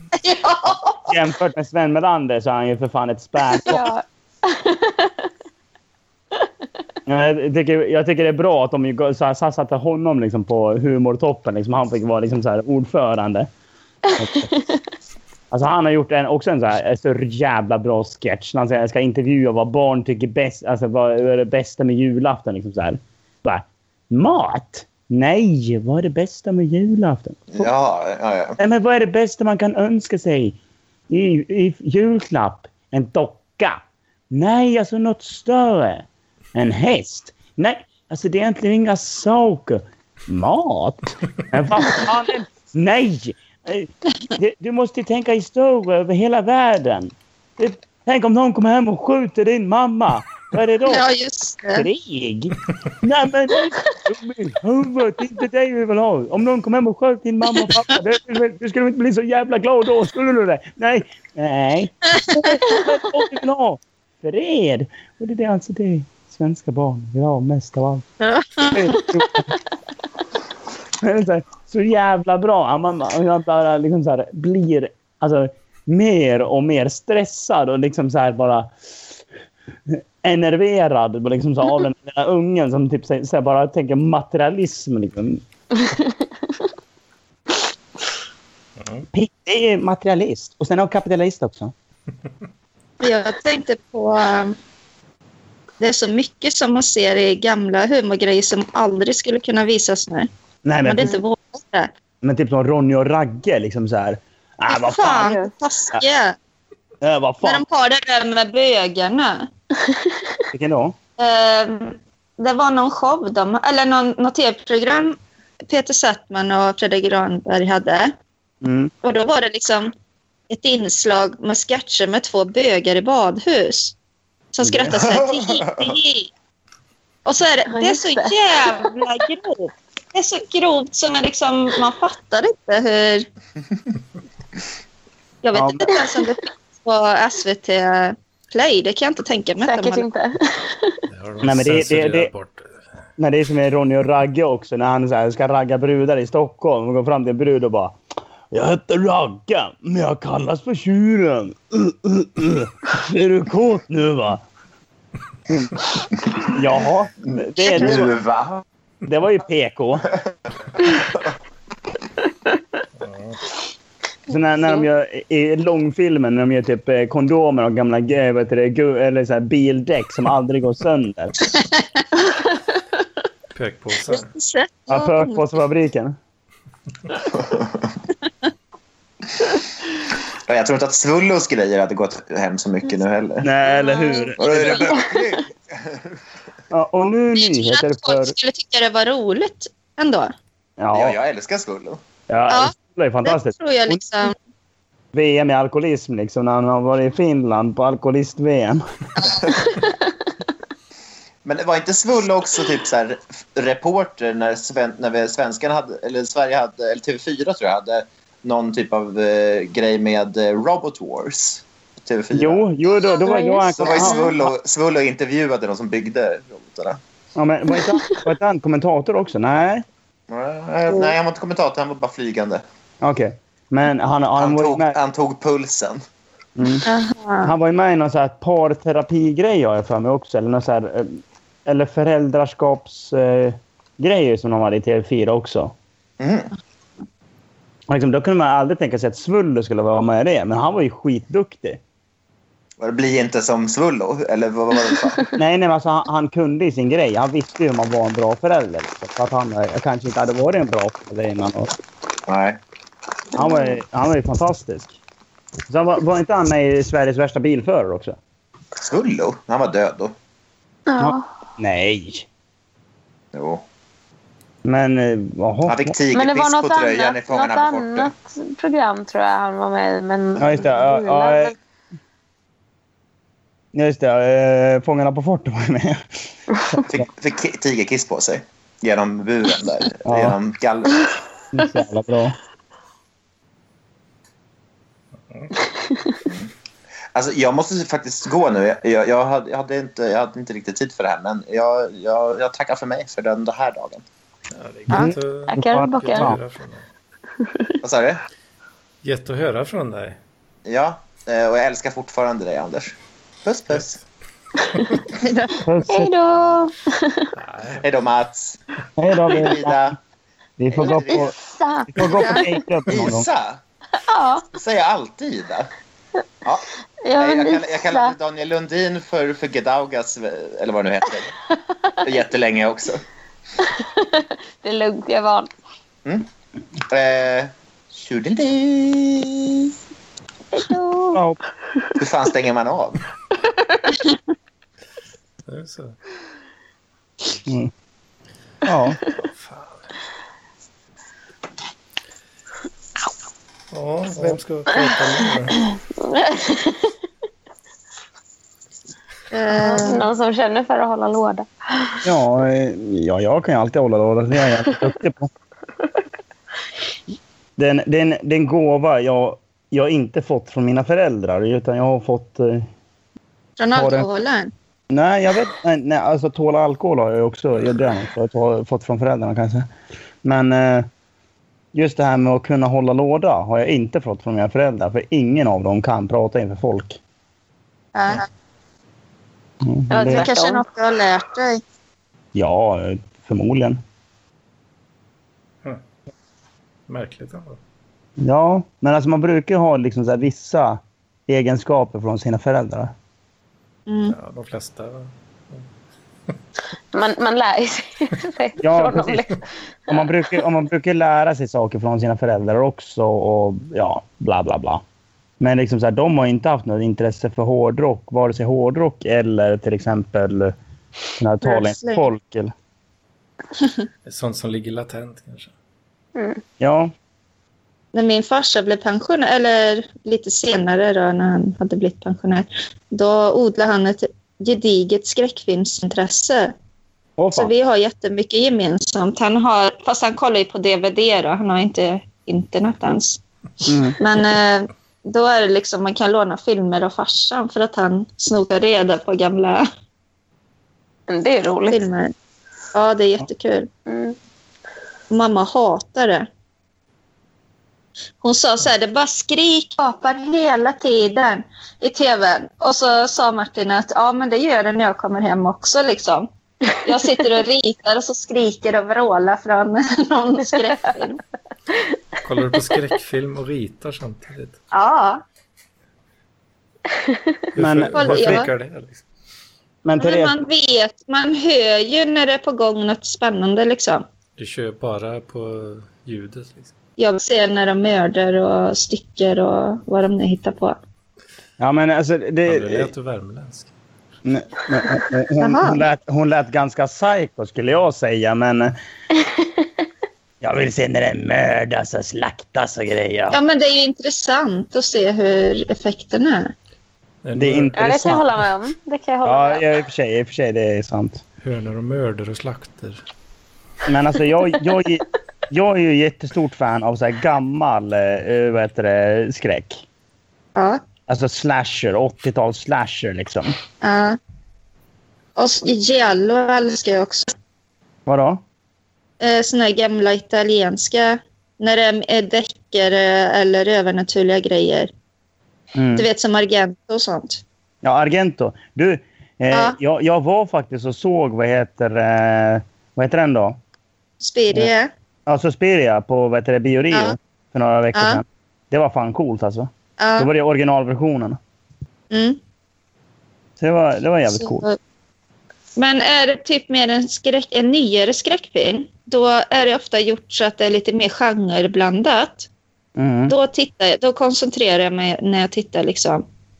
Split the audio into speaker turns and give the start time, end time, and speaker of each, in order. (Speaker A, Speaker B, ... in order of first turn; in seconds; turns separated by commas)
Speaker A: 0.2-1.1, Speaker B: 1.1-3.8, Speaker C: 3.6-5.1, Speaker B: 7.0-13.5, Speaker B: 14.2-14.5, Speaker C: 14.4-14.8, Speaker B: 15.5-27.7, Speaker D: 27.5-28.6, Speaker B: 28.6-30.6, Speaker B: 31.1-51.0, Speaker A: 50.9-51.9, Speaker B: 51.8-68.1, Speaker A: 68.2-69.0, Speaker B: 68.7-69.5, Speaker B: 71.0-78.8, Speaker B: 79.9-85.4, Speaker C: 85.8-86.1, Speaker B: 89.1-91.7, Speaker A: 93.0-94.5, Speaker A: 95.8-100.3, Speaker B: 100.6-101.2, Speaker A: 100.8-101.9, Speaker B: 102.2-105.4, Speaker A: 104.7-106.3, Speaker B: 107.0-107.6, Speaker A: 107.4-109.5, Speaker C: 109.9-110.2, Speaker B: 110.5-111.0, Speaker A: 111.2-115.2, Speaker A: 115.7-118.1, Speaker B: 118.6-118.9, Speaker A: 119.0-119.9, Speaker A: 120.5-123.9, Speaker A: 124.5-126.3, Speaker B: 124.6-124.9, Speaker D: 124.9-126.0, Speaker A: 127.2-133.3, Speaker C: 127.7-128.9, Speaker A: 135.4-140.1, Speaker B: 135.5-135.9, Speaker C: 139.6-141.0, Speaker E: 141.1-142.7, Speaker B: 141.4-142.3, Speaker B: 143.2-148.0, Speaker B: 148.5-154.4, Speaker B: 155.5-155.8, Speaker B: 156.4-158.1, Speaker D: 157.2-158.6, Speaker B: 159.0-160.1, Speaker E: 163.0-163.4, Speaker B: 164.3-171.3, Speaker E: 173.5-174.3, Speaker A: 174.1-175.4, Speaker B: 174.9-176.2, Speaker D: 177.3-177.9, Speaker D: 180.5-183.5, Speaker B: 183.4-184.8, Speaker A: 183.8-184.7, Speaker D: 184.4-186.2, Speaker B: 186.7-188.3, Speaker A: 187.4-190.3, Speaker B: 190.8-191.2, Speaker D: 190.9-192.0, Speaker B: 192.3-194.3, Speaker A: 193.2-194.3, Speaker B: 195.1-198.8, Speaker D: 199.4-199.7, Speaker D: 201.4-212.6, Speaker B: 212.3-214.5, Speaker C: 213.1-214.3, Speaker D: 213.8-217.0, Speaker B: 217.3-219.8, Speaker D: 220.3-222.6, Speaker B: 223.0-224.9, Speaker D: 224.3-226.0, Speaker B: 226.6-226.9, Speaker A: 226.8-227.5, Speaker B: 227.4-235.7, Speaker D: 236.2-236.5, Speaker B: 237.9-241.8, Speaker D: 242.8-245.2, Speaker B: 245.3-251.7, Speaker D: 252.3-252.6, Speaker B: 253.3-255.0, Speaker B: 255.7-258.1, Speaker D: 258.8-260.1, Speaker C: 260.9-261.2, Speaker B: 261.0-262.2, Speaker D: 263.3-263.6, Speaker B: 264.6-265.9, Speaker D: 265.6-268.1, Speaker C: 266.1-271.5, Speaker B: 270.4-271.5, Speaker B: 273.7-276.0, Speaker B: 276.7-277.0, Speaker D: 276.9-281.0, Speaker B: 280.0-280.4, Speaker B: 281.5-282.4, Speaker E: 285.3-285.5, Speaker C: 285.8-286.1, Speaker D: 287.1-294.0, Speaker E: 294.5-296.9, Speaker B: 294.9-296.4, Speaker C: 295.5-296.3, Speaker C: 297.4-297.8, Speaker D: 297.8-298.2, Speaker E: 299.0-300.2, Speaker D: 300.6-304.0, Speaker A: 305.2-305.6, Speaker B: 305.6-306.1, Speaker C: 305.9-307.3, Speaker E: 307.3-307.8, Speaker D: 307.8-308.6, Speaker B: 309.0-309.8, Speaker D: 309.3-310.0, Speaker B: 310.6-311.3, Speaker D: 310.7-311.3, Speaker C: 310.8-312.4, Speaker B: 311.9-313.3, Speaker A: 312.1-312.5, Speaker D: 312.9-313.6, Speaker C: 314.1-314.4, Speaker D: 314.5-315.7, Speaker D: 316.4-321.3, Speaker C: 317.0-318.1, Speaker C: 321.5-322.0, Speaker D: 322.0-323.0, Speaker C: 323.6-325.5, Speaker D: 326.9-329.7, Speaker C: 330.5-331.2, Speaker B: 331.1-331.4, Speaker D: 332.0-333.0, Speaker C: 333.5-333.9, Speaker E: 335.4-335.9, Speaker B: 337.4-337.7, Speaker B: 338.6-339.0, Speaker E: 339.2-339.9, Speaker E: 343.7-345.6, Speaker C: 345.7-346.9, Speaker A: 349.3-350.0, Speaker C: 349.6-352.0, Speaker B: 352.0-355.3, Speaker B: 357.6-362.7, Speaker A: 363.6-364.5, Speaker B: 363.7-364.1, Speaker B: 364.9-369.7, Speaker B: 370.2-370.9, Speaker B: 371.7-377.0, Speaker A: 377.9-378.3, Speaker B: 379.6-380.3, Speaker C: 379.9-380.6, Speaker A: 380.0-381.6, Speaker B: 382.3-383.8, Speaker E: 386.9-387.6, Speaker B: 388.2-392.9, Speaker A: 393.9-394.1, Speaker E: 394.1-395.7, Speaker C: 396.9-400.1, Speaker B: 398.6-399.3, Speaker B: 399.9-404.8, Speaker B: 405.4-410.5, Speaker B: 411.2-412.5, Speaker A: 411.4-412.1, Speaker E: 414.1-415.5, Speaker C: 416.1-416.4, Speaker B: 416.6-416.9, Speaker A: 417.9-426.5, Speaker B: 427.2-427.5, Speaker A: 427.3-439.6, Speaker B: 433.6-434.0, Speaker C: 441.1-441.8, Speaker A: 441.7-442.1, Speaker A: 442.7-443.7, Speaker C: 443.9-444.1, Speaker A: 445.1-446.3, Speaker A: 448.2-456.3, Speaker A: 456.8-461.2, Speaker E: 462.2-464.6, Speaker A: 464.7-465.2, Speaker C: 467.0-467.4, Speaker E: 467.5-469.0, Speaker B: 467.6-468.5, Speaker A: 467.9-468.5, Speaker B: 469.8-470.4, Speaker A: 470.0-474.1, Speaker E: 474.4-476.7, Speaker A: 477.0-480.8, Speaker B: 481.6-482.9, Speaker E: 482.4-483.7, Speaker B: 484.2-488.7, Speaker A: 485.4-485.8, Speaker C: 489.2-489.6, Speaker B: 490.4-493.4, Speaker A: 493.3-496.5, Speaker E: 497.2-498.2, Speaker B: 497.3-498.2, Speaker C: 497.8-499.6, Speaker B: 499.2-501.2, Speaker E: 501.4-503.0, Speaker B: 503.9-509.8, Speaker A: 510.6-510.8, Speaker B: 511.1-513.6, Speaker A: 513.8-514.2, Speaker A: 515.4-517.3, Speaker B: 518.0-518.4, Speaker A: 519.2-524.9, Speaker B: 525.7-526.1, Speaker A: 526.0-527.4, Speaker B: 527.8-533.6, Speaker A: 529.5-529.8, Speaker A: 534.2-534.9, Speaker B: 535.3-541.4, Speaker A: 537.9-538.2, Speaker A: 540.0-540.3, Speaker A: 542.1-542.4, Speaker B: 543.6-544.6, Speaker A: 544.3-544.8, Speaker A: 545.8-552.5, Speaker B: 553.0-553.3, Speaker A: 553.3-556.2